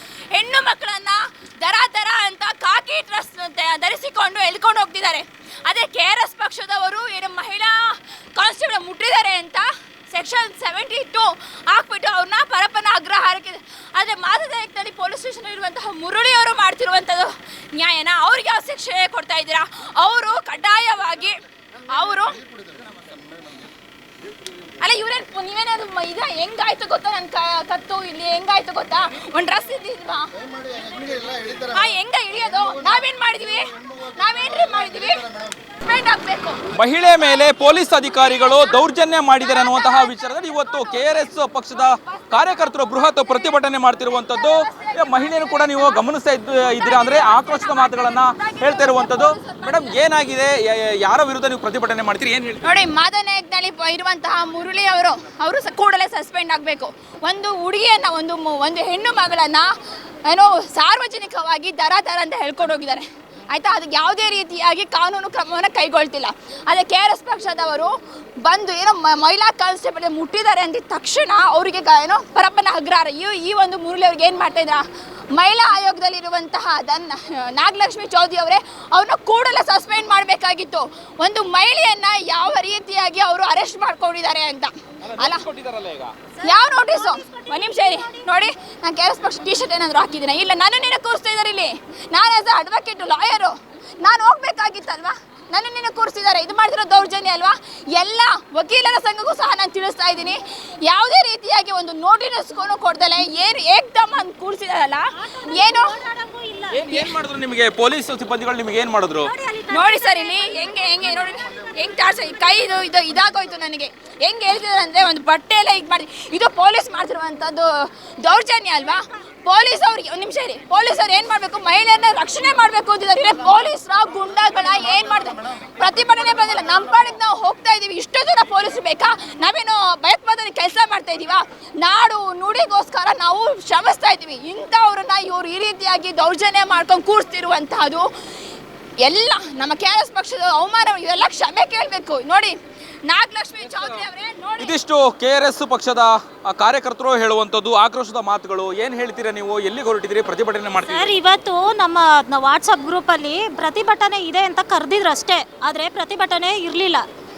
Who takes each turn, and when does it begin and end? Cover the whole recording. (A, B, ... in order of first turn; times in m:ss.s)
0:00.3-0:21.4 A
0:21.9-0:22.4 A
0:24.8-0:30.3 A
0:30.9-0:36.6 A
0:36.7-0:52.6 B
0:38.0-0:42.8 A
0:44.0-0:46.0 A
0:46.8-0:50.2 A
0:52.6-0:59.7 A
1:00.3-1:07.9 A
1:08.4-1:25.4 A
1:25.0-1:26.2 B
1:26.4-1:28.3 C
1:26.4-1:46.0 A
1:45.4-1:47.0 C
1:46.7-1:49.3 B
1:49.2-1:50.8 C
1:49.7-2:18.1 A
2:19.0-2:24.7 A
2:23.6-2:24.0 B
2:24.6-2:31.1 B
2:30.8-2:37.0 C